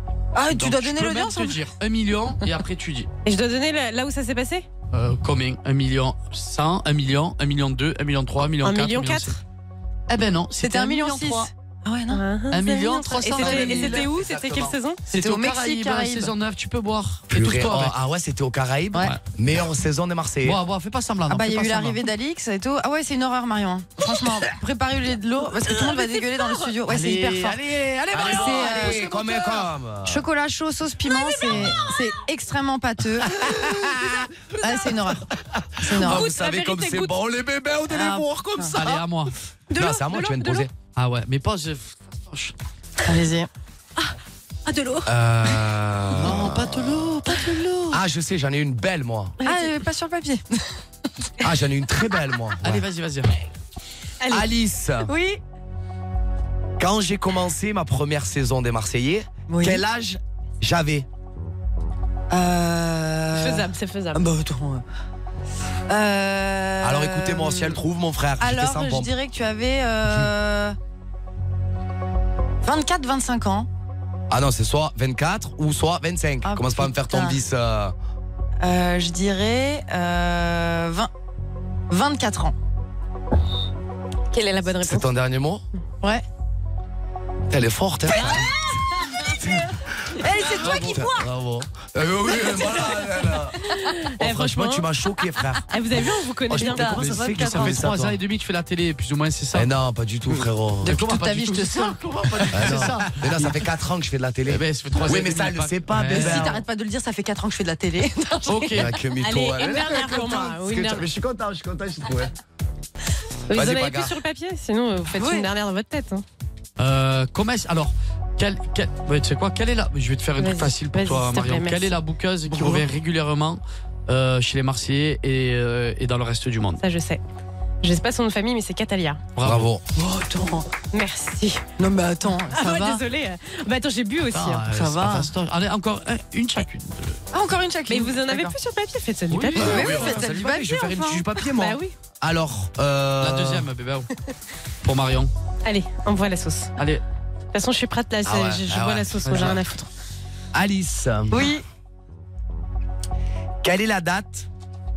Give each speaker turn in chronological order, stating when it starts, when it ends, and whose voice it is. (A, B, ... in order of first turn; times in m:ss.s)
0:00.3-0:01.6 A
0:00.5-0:03.1 B
0:03.2-0:04.6 C
0:04.9-0:09.4 B
0:08.6-0:09.4 C
0:10.1-0:11.5 B
0:10.6-0:12.2 A
0:12.1-0:15.0 C
0:12.5-0:14.0 B
0:13.3-0:14.8 D
0:15.1-0:17.9 B
0:15.1-0:16.3 A
0:17.3-0:20.6 D
0:20.4-0:22.0 B
0:21.3-0:29.2 A
0:25.8-0:26.7 C
0:26.9-0:28.9 B
0:28.1-0:30.2 D
0:30.0-0:33.9 A
0:31.1-0:31.7 C
0:33.2-0:34.3 D
0:34.6-0:35.3 A
0:35.8-0:36.2 A
0:35.9-0:39.0 D
0:36.0-0:37.2 C
0:37.9-0:39.0 A
0:38.7-0:39.3 B
0:39.7-0:40.7 D
0:39.7-0:40.7 C
0:41.0-0:42.5 B
0:43.0-0:43.5 A
0:44.7-0:45.1 C
0:45.0-0:47.1 D
0:46.1-0:48.0 B
0:47.9-0:49.4 D
0:49.4-0:49.7 C
0:49.4-0:50.7 A
0:51.4-0:52.8 D
0:52.6-0:53.3 B
0:54.2-0:54.5 C
0:54.3-0:55.1 D
0:55.1-0:55.4 A
0:56.8-1:01.1 D
0:59.5-0:59.8 A
1:02.3-1:04.8 A
1:03.3-1:04.3 C
1:05.9-1:07.8 A
1:06.8-1:09.1 D
1:08.4-1:10.8 A
1:12.6-1:13.7 A
1:14.3-1:17.9 D
1:16.4-1:17.4 A
1:18.6-1:21.1 A
1:21.9-1:22.5 A
1:24.3-1:25.0 C
1:24.8-1:25.6 D
1:27.5-1:28.5 D
1:28.1-1:28.5 C
1:29.4-1:29.7 D
1:30.2-1:31.2 A
1:30.4-1:33.6 D
1:33.7-1:34.9 C
1:34.2-1:35.7 D
1:35.7-1:37.2 C
1:36.5-1:38.2 D
1:36.6-1:39.7 B
1:36.7-1:37.7 A
1:39.5-1:41.0 D
1:40.8-1:42.9 A
1:40.8-1:43.6 B
1:42.5-1:46.6 D
1:44.5-1:46.5 B
1:46.1-1:48.7 A
1:48.5-1:48.9 B
1:48.7-1:52.3 D
1:49.2-1:51.1 C
1:53.5-1:56.2 C
1:53.5-1:54.2 D
1:55.2-1:55.5 A
1:56.8-2:06.8 B
2:00.4-2:01.9 C
2:02.5-2:02.9 A
2:06.8-2:07.2 C
2:07.8-2:09.2 C
2:09.4-2:09.7 B
2:09.4-2:09.8 D
2:10.0-2:10.7 A
2:10.9-2:11.6 C
2:11.8-2:13.0 A
2:12.5-2:14.6 C
2:14.3-2:17.2 B
2:14.7-2:15.3 A
2:17.3-2:18.5 A
2:17.9-2:21.9 C
2:19.3-2:19.9 B
2:19.6-2:23.7 D
2:19.6-2:21.0 A
2:23.2-2:24.1 B
2:24.8-2:25.3 B
2:25.6-2:26.7 C
2:26.8-2:27.0 B
2:27.5-2:29.9 C
2:28.2-2:29.6 D
2:30.5-2:31.5 D
2:31.3-2:31.6 A
2:33.6-2:34.5 D